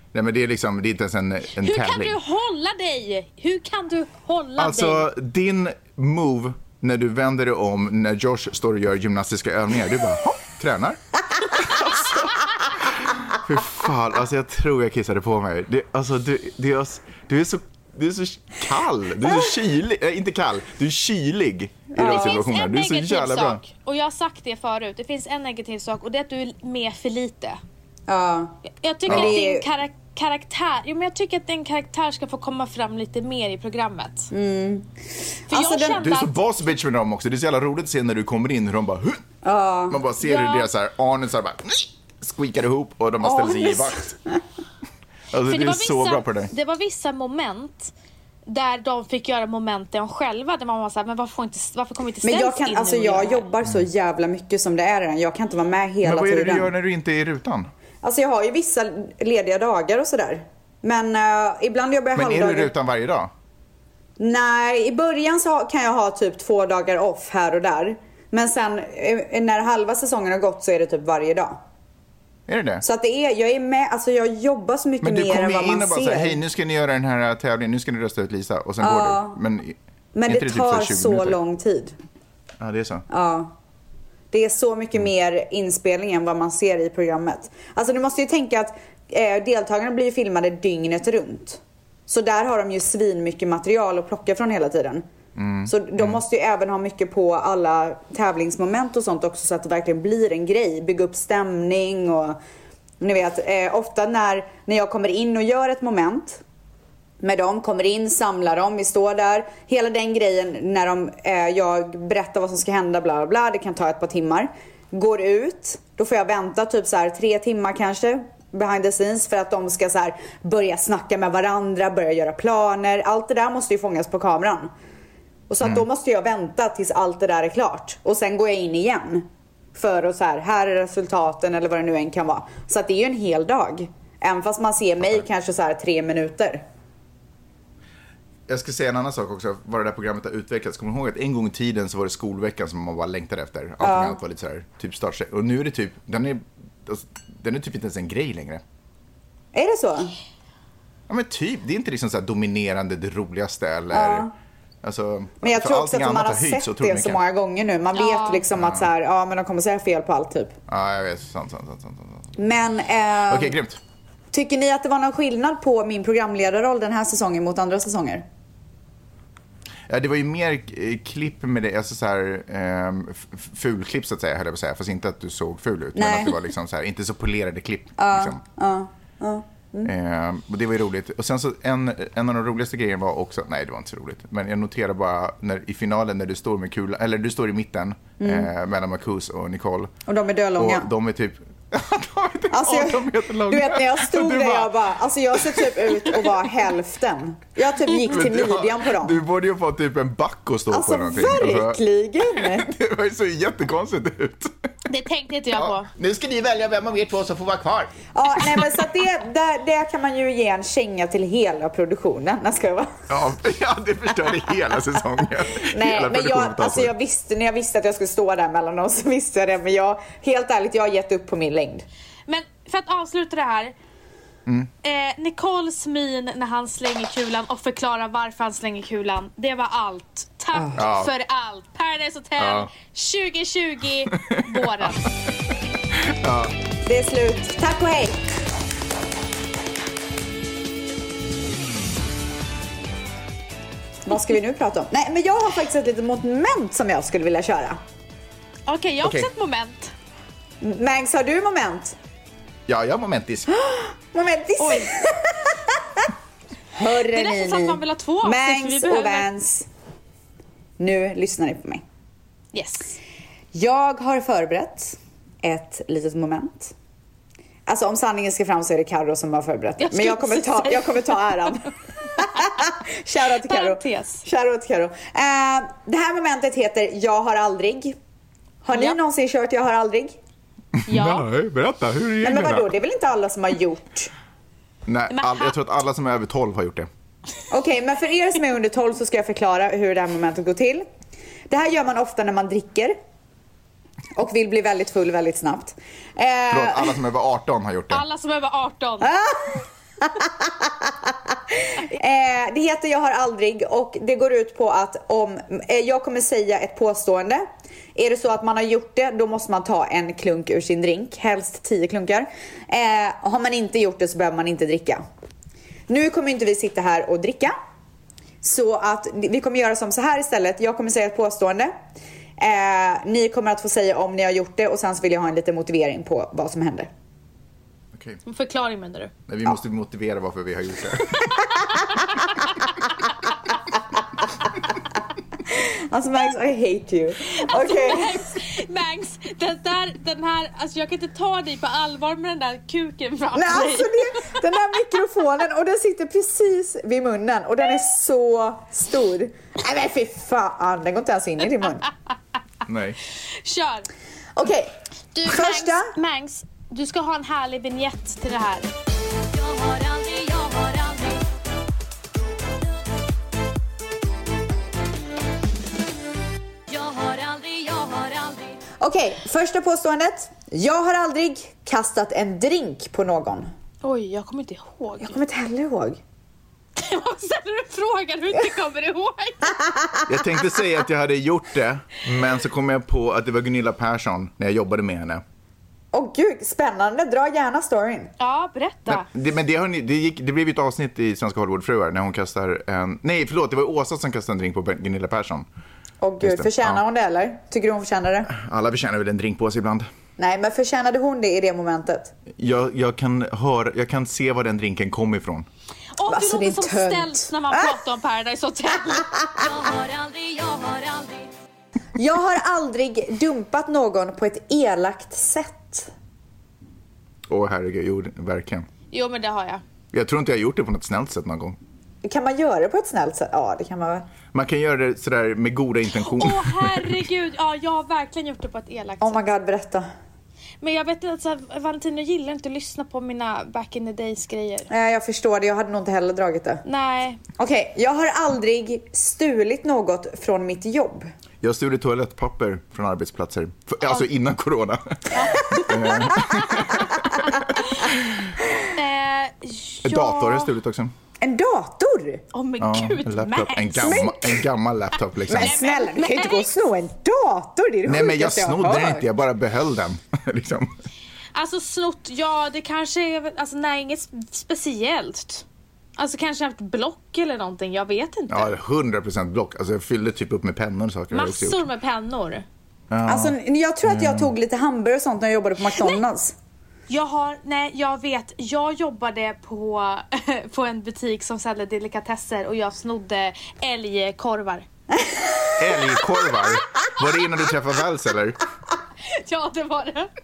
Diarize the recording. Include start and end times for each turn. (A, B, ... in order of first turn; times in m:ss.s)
0:00.1-0:02.2 A
0:01.6-0:05.1 B
0:04.6-0:23.6 A
0:21.9-0:22.4 C
0:22.0-0:27.6 B
0:28.1-0:29.7 C
0:28.8-0:34.3 B
0:29.1-0:29.4 A
0:34.3-0:34.9 C
0:35.5-0:36.0 C
0:35.5-0:36.3 B
0:35.9-0:39.2 A
0:39.4-0:40.0 C
0:39.9-0:44.0 A
0:40.2-0:40.7 B
0:43.2-0:44.4 C
0:45.3-0:46.5 A
0:45.5-0:47.9 B
0:48.5-0:53.4 B
0:52.2-0:56.7 C
0:56.0-0:57.7 A
0:58.0-1:02.7 C
1:02.1-1:03.3 A
1:04.2-1:11.6 C
1:12.5-1:12.8 A
1:12.8-1:16.4 C
1:15.0-1:19.8 A
1:18.8-1:19.4 C
1:20.1-1:21.9 C
1:20.3-1:21.4 A
1:22.6-1:23.0 A
1:23.1-1:23.5 C
1:24.3-1:35.0 C
1:35.4-1:36.2 A
1:35.6-1:42.4 C
1:43.0-1:46.4 C
1:47.2-2:04.7 C
2:05.5-2:16.6 C
2:18.5-2:28.6 A
2:23.8-2:24.2 C
2:29.5-2:30.1 C
2:31.1-2:34.3 A
2:33.9-2:34.3 C
2:34.8-2:37.2 A
2:35.4-2:40.5 C
2:37.9-2:38.4 B
2:38.6-2:38.9 A
2:40.7-2:42.3 A
2:42.4-2:43.6 C
2:43.3-2:43.8 A
2:44.3-2:48.2 C
2:49.9-2:58.4 A
2:55.9-2:56.4 C
2:58.0-2:59.9 C
2:59.8-3:09.9 A
3:08.2-3:08.5 C
3:10.1-3:10.9 C
3:10.6-3:16.3 A
3:12.5-3:19.2 C
3:18.0-3:24.5 A
3:20.7-3:22.7 C
3:24.9-3:25.9 B
3:25.5-3:28.8 A
3:28.1-3:33.0 C
3:33.1-3:36.9 A
3:35.6-3:41.8 C
3:42.3-3:43.7 B
3:44.4-3:44.7 A
3:44.8-3:55.1 B
3:50.8-3:51.1 A
3:52.4-3:52.7 A
3:54.1-3:54.9 A
3:55.9-3:56.5 A
3:56.8-3:58.2 C
4:04.0-4:07.8 C
4:08.6-4:09.9 B
4:09.0-4:09.3 A
4:10.6-4:12.0 C
4:12.7-4:13.5 A
4:13.5-4:16.1 C
4:14.6-4:14.9 B
4:16.8-4:19.7 C
4:16.9-4:19.3 B
4:20.8-4:21.8 C
4:22.5-4:22.9 B
4:23.5-4:26.7 C
4:27.7-4:38.0 C
4:29.8-4:31.6 B
4:33.4-4:34.2 B
4:38.6-4:40.2 C
4:40.8-4:42.7 A
4:40.9-4:41.3 B
4:42.2-4:44.1 C
4:44.8-4:46.9 A
4:45.1-4:45.5 B
4:47.5-4:50.8 C
4:51.5-4:53.0 C
4:54.1-4:57.0 C
4:56.5-4:58.0 A
4:57.9-4:59.1 B
4:59.0-5:15.0 C
5:15.9-5:17.5 C
5:18.4-5:21.7 C
5:22.4-5:26.9 C
5:27.9-5:28.2 A
5:28.2-5:29.1 B
5:29.3-5:31.2 A
5:35.5-5:38.2 C
5:37.4-5:44.4 B
5:43.3-5:51.9 C
5:52.6-5:53.0 A
5:53.4-5:53.9 B
5:54.4-5:54.7 C
5:55.1-5:58.7 B
5:55.2-5:55.9 C
5:59.3-6:01.2 D
6:06.7-6:08.6 D
6:08.8-6:13.5 C
6:13.8-6:15.2 B
6:15.0-6:16.0 C
6:16.8-6:19.6 B
6:19.7-6:20.0 C
6:20.1-6:25.2 A
6:25.9-6:28.1 C
6:28.2-6:29.0 B
6:28.9-6:35.4 A
6:36.0-6:38.3 C
6:36.2-6:36.8 A
6:38.3-6:39.9 A
6:40.2-6:42.1 C
6:42.4-6:45.5 A
6:46.0-6:49.1 B
6:46.1-6:47.8 C
6:49.4-6:51.3 D
6:52.0-6:55.9 C
6:57.3-6:58.7 A
6:58.9-6:59.6 B
6:59.9-7:01.6 A
7:02.0-7:04.1 C
7:04.3-7:07.0 A
7:06.0-7:09.2 B
7:09.0-7:09.9 C
7:10.6-7:14.7 B
7:14.7-7:16.6 C
7:16.6-7:17.2 B
7:17.4-7:21.1 C
7:21.4-7:28.2 A
7:25.1-7:26.8 B
7:26.7-7:27.5 C
7:28.7-7:30.5 B
7:29.8-7:30.9 A
7:31.2-7:32.2 C
7:32.3-7:34.1 B
7:32.6-7:35.6 A
7:33.8-7:34.4 C
7:35.3-7:39.0 C
7:35.3-7:36.5 B
7:37.8-7:40.7 A
7:41.3-7:45.4 B
7:46.0-7:48.5 B
7:48.3-7:51.6 A
7:51.1-7:52.4 B
7:52.9-7:54.3 A
7:53.1-7:56.3 C
7:55.7-7:56.0 B
7:56.9-8:04.6 B
8:04.9-8:05.6 C
8:05.6-8:08.4 A
8:09.0-8:10.1 B